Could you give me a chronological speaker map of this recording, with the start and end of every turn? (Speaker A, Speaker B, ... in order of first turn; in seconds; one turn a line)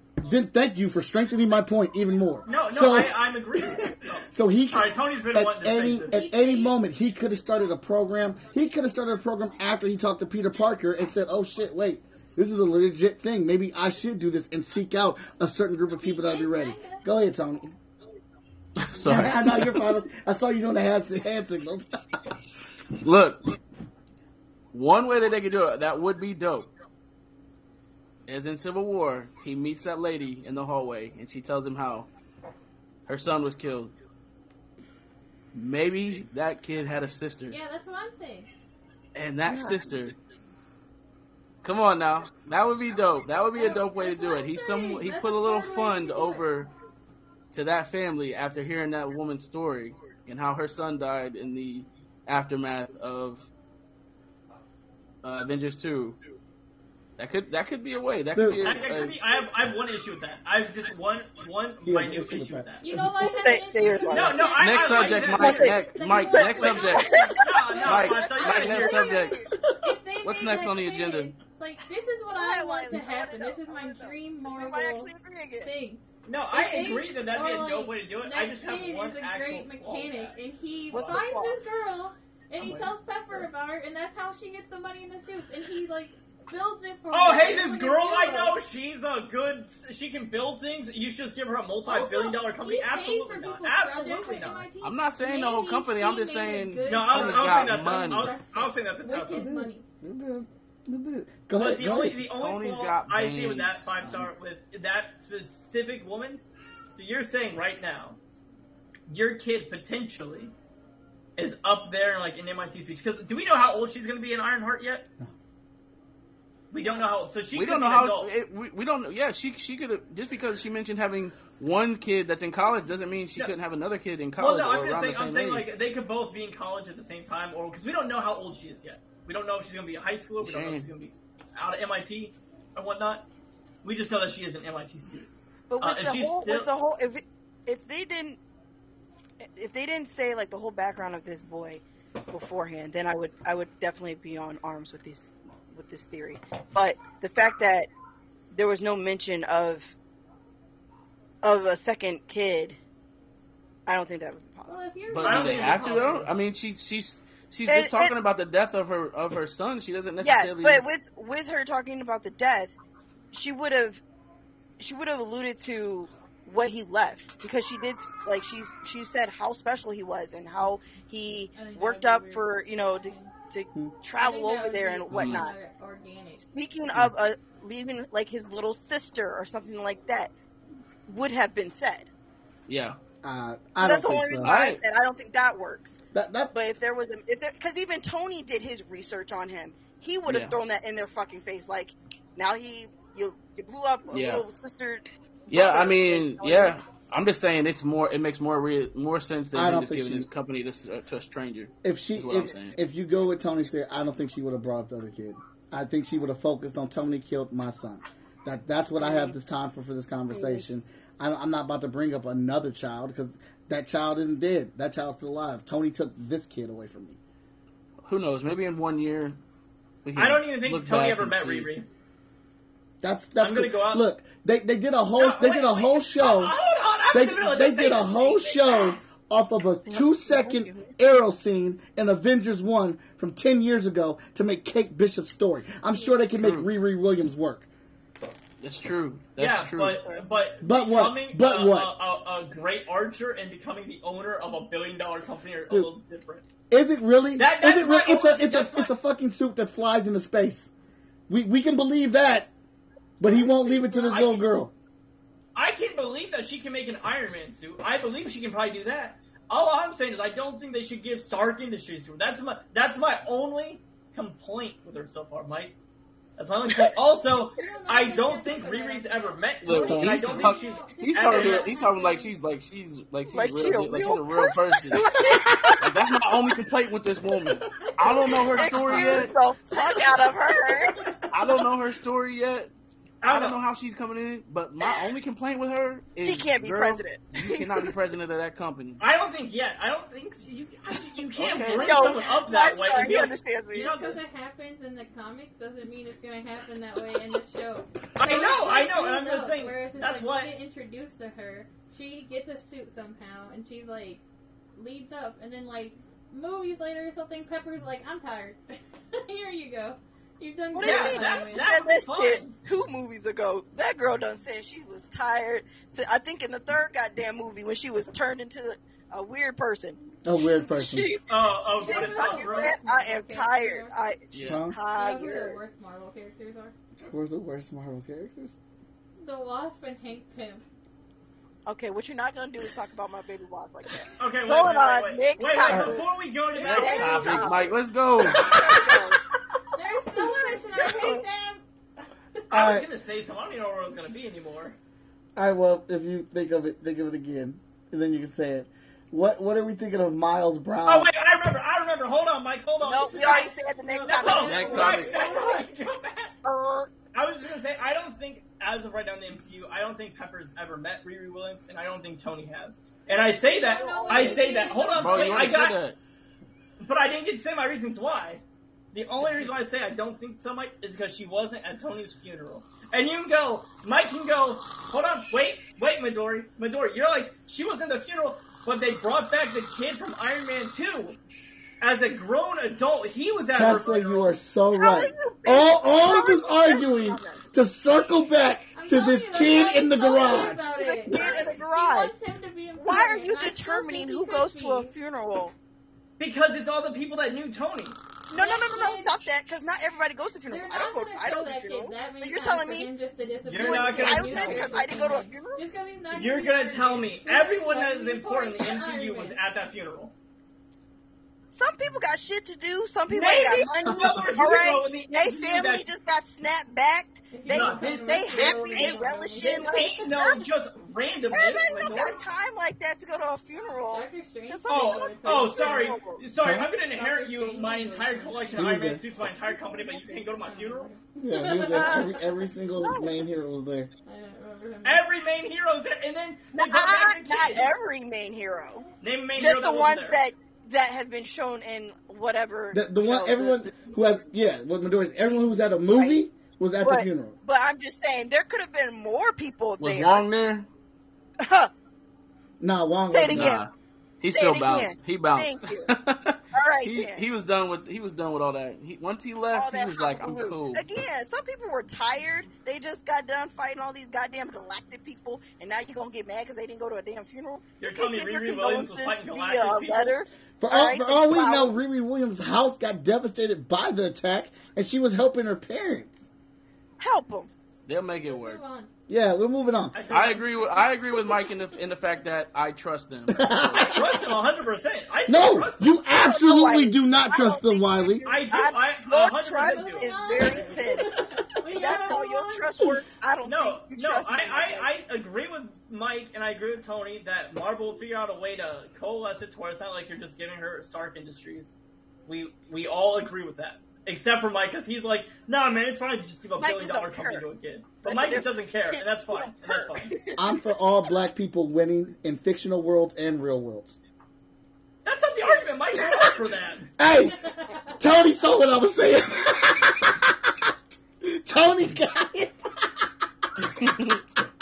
Speaker A: 0.2-17.8
Speaker B: 2.5-6.1
Speaker C: 6.1-6.8
Speaker C: 16.0-17.1
Speaker D: 18.8-19.9
Speaker A: 19.0-22.2
Speaker D: 23.0-23.4
Speaker D: 24.7-26.7
Speaker D: 28.3-32.1
Speaker D: 33.1-33.9
Speaker D: 35.5-37.6
Speaker C: 37.5-38.5
Speaker D: 39.1-40.1
Speaker E: 39.5-39.8
Speaker D: 41.6-46.7
Speaker C: 43.5-46.5
Speaker D: 47.5-53.5
Speaker D: 55.2-56.2
Speaker D: 57.2-59.1
Speaker A: 58.3-58.8
Speaker B: 58.6-62.9
Speaker A: 61.8-63.1
Speaker C: 62.8-75.1
Speaker E: 63.2-64.6
Speaker B: 64.1-65.7
Speaker D: 64.6-67.2
Speaker E: 65.4-65.8
Speaker E: 66.3-69.5
Speaker B: 66.4-69.1
Speaker D: 67.8-69.4
Speaker D: 70.2-71.3
Speaker E: 72.3-75.7
Speaker C: 75.6-88.6
Speaker B: 76.2-80.4
Speaker E: 80.9-81.6
Speaker B: 82.6-83.5
Speaker B: 87.1-94.7
Speaker C: 91.8-99.8
Speaker D: 94.8-98.4
Speaker B: 96.8-99.5
Speaker A: 99.3-102.2
Speaker B: 101.5-108.2
Speaker D: 102.3-104.3
Speaker B: 109.1-110.5
Speaker B: 111.4-115.1
Speaker B: 116.7-118.3
Speaker D: 117.5-125.7
Speaker B: 124.4-133.3
Speaker D: 130.4-130.9
Speaker B: 133.8-136.7
Speaker E: 135.7-138.4
Speaker E: 139.4-147.9
Speaker E: 148.5-149.9
Speaker E: 151.4-152.8
Speaker E: 153.9-154.7
Speaker C: 154.7-156.3
Speaker D: 155.1-160.8
Speaker B: 155.2-156.3
Speaker E: 157.7-158.1
Speaker E: 160.2-162.7
Speaker E: 163.3-164.0
Speaker E: 164.8-175.5
Speaker C: 171.5-173.3
Speaker C: 174.2-176.4
Speaker D: 175.1-175.5
Speaker E: 176.4-180.3
Speaker E: 181.1-182.1
Speaker D: 182.7-183.0
Speaker A: 183.2-184.5
Speaker E: 183.8-186.0
Speaker D: 184.4-184.8
Speaker A: 186.1-186.5
Speaker E: 186.5-196.8
Speaker D: 190.2-190.6
Speaker D: 194.1-194.4
Speaker D: 195.5-202.7
Speaker A: 199.5-200.3
Speaker A: 201.8-217.2
Speaker E: 209.0-209.3
Speaker E: 210.3-210.7
Speaker D: 218.0-219.4
Speaker D: 220.0-221.7
Speaker B: 220.2-221.9
Speaker A: 223.0-226.5
Speaker B: 223.4-224.0
Speaker B: 225.2-229.0
Speaker A: 227.1-237.7
Speaker E: 229.9-230.9
Speaker C: 235.9-236.2
Speaker D: 236.4-236.7
Speaker D: 238.6-240.0
Speaker B: 239.4-246.4
Speaker A: 240.6-241.9
Speaker A: 246.7-250.7
Speaker B: 247.4-248.9
Speaker A: 251.3-252.5
Speaker A: 253.2-254.7
Speaker E: 253.2-254.1
Speaker B: 254.1-254.4
Speaker B: 255.5-265.7
Speaker B: 266.4-271.7
Speaker C: 267.6-272.4
Speaker D: 269.6-275.0
Speaker A: 269.8-270.3
Speaker E: 273.3-276.3
Speaker D: 275.8-279.3
Speaker E: 278.0-281.2
Speaker D: 281.3-282.7
Speaker B: 283.2-283.6
Speaker D: 283.2-289.0
Speaker E: 284.8-285.1
Speaker E: 286.2-287.9
Speaker B: 289.0-294.2
Speaker D: 291.4-292.1
Speaker E: 291.7-293.9
Speaker C: 293.7-304.2
Speaker B: 298.2-300.5
Speaker C: 304.8-311.7
Speaker E: 310.7-325.6
Speaker B: 310.8-312.6
Speaker A: 320.2-321.1
Speaker B: 321.3-322.8
Speaker C: 321.8-323.9
Speaker D: 324.3-324.6
Speaker A: 324.4-324.8
Speaker C: 324.9-326.7
Speaker A: 327.0-328.6
Speaker C: 329.2-330.6
Speaker E: 331.6-336.1
Speaker B: 334.2-337.5
Speaker A: 335.6-336.0
Speaker C: 336.5-337.6
Speaker D: 336.6-338.8
Speaker E: 336.6-339.2
Speaker C: 338.6-338.9
Speaker C: 339.7-341.6
Speaker E: 340.1-341.2
Speaker A: 342.5-342.9
Speaker B: 342.5-344.8
Speaker A: 345.4-351.1
Speaker B: 350.9-356.3
Speaker E: 352.8-355.5
Speaker C: 353.9-355.7
Speaker D: 354.4-355.2
Speaker E: 356.4-356.9
Speaker B: 357.1-365.8
Speaker C: 363.5-365.6
Speaker E: 363.9-364.7
Speaker D: 364.9-366.0
Speaker B: 366.8-381.2
Speaker B: 381.8-384.3
Speaker A: 383.5-390.7
Speaker E: 384.8-387.4
Speaker C: 388.7-394.9
Speaker E: 390.7-392.1
Speaker E: 392.8-395.5
Speaker B: 396.2-398.0
Speaker E: 398.3-402.9
Speaker C: 398.3-399.2
Speaker C: 400.5-409.4
Speaker B: 403.4-404.9
Speaker E: 403.6-405.6
Speaker B: 406.1-410.1
Speaker E: 411.5-420.5
Speaker B: 413.1-415.9
Speaker C: 417.3-419.9
Speaker B: 417.5-422.2
Speaker E: 421.3-426.2
Speaker C: 423.9-425.9
Speaker B: 424.7-430.9
Speaker A: 426.4-426.7
Speaker C: 426.9-428.7
Speaker A: 428.5-429.0
Speaker C: 430.4-432.2
Speaker A: 431.2-433.9
Speaker E: 431.7-432.2
Speaker E: 432.8-433.1
Speaker C: 434.1-435.1
Speaker B: 434.8-437.7
Speaker E: 436.6-443.8
Speaker B: 439.0-440.2
Speaker A: 442.7-447.4
Speaker E: 445.9-446.2
Speaker E: 446.8-450.2
Speaker D: 449.8-450.7
Speaker E: 451.4-451.7
Speaker A: 452.6-453.6
Speaker E: 453.1-453.6
Speaker D: 453.3-453.7
Speaker D: 454.2-460.8
Speaker E: 454.3-455.9
Speaker E: 456.5-457.2
Speaker E: 459.5-471.8
Speaker B: 467.8-470.1
Speaker A: 470.6-476.3
Speaker E: 477.0-477.5
Speaker D: 477.9-478.6
Speaker C: 478.2-478.9
Speaker A: 479.1-479.9
Speaker B: 479.9-480.5
Speaker D: 480.1-483.9
Speaker A: 483.3-484.0
Speaker B: 483.7-486.0
Speaker A: 485.3-488.3
Speaker E: 486.1-491.1
Speaker B: 488.2-490.5
Speaker C: 489.6-492.8
Speaker E: 491.7-494.9
Speaker B: 493.4-501.7
Speaker B: 502.3-510.1
Speaker E: 506.6-507.5
Speaker E: 508.0-510.4
Speaker A: 510.4-514.0
Speaker B: 515.0-516.9
Speaker A: 517.0-523.1
Speaker A: 523.6-523.9
Speaker D: 523.8-524.1